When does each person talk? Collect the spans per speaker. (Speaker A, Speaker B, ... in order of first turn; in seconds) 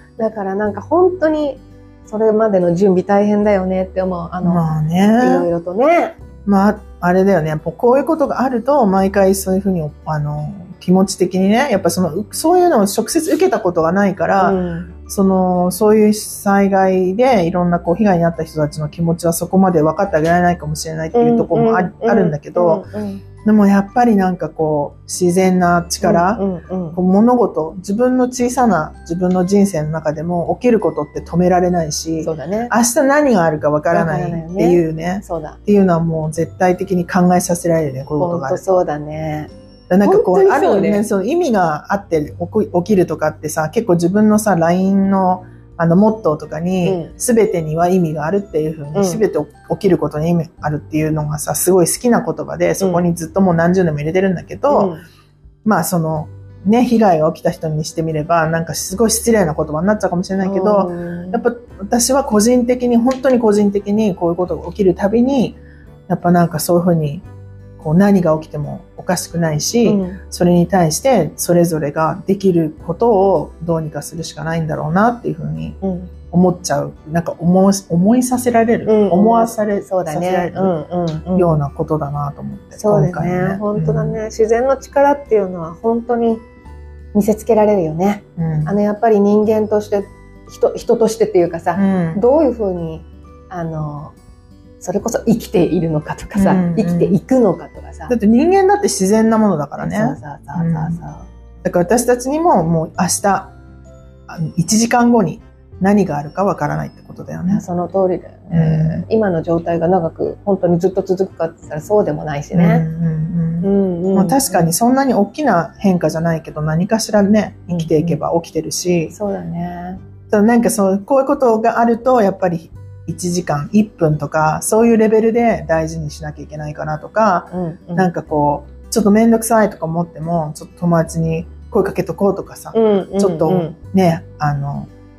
Speaker A: 0.2-6.2, 14.4-14.9, 21.1-23.2, 26.0-27.0, 32.2-32.7, 33.9-35.6, 38.2-39.5, 40.0-41.0, 46.8-47.1, 48.9-49.2, 54.7-55.0, 60.4-61.4, 69.8-70.2, 75.8-76.1, 78.8-81.6, 82.8-86.4, 87.1-94.1, 94.8-98.1, 99.8-101.3, 107.5-112.8, 113.6-114.7, 117.7-118.2, 119.1-120.0, 127.5-128.1, 132.7-133.8
Speaker B: 4.4-5.5, 6.4-22.9, 23.4-26.4, 26.9-38.6, 39.9-54.9, 55.6-67.2, 67.8-75.8, 76.3-80.7, 81.3-84.2, 88.4-88.8, 91.8-92.2, 96.3-97.2, 98.1-101.0, 101.6-103.5, 104.3-107.6, 108.5-109.0, 112.5-119.1, 120.3-134.9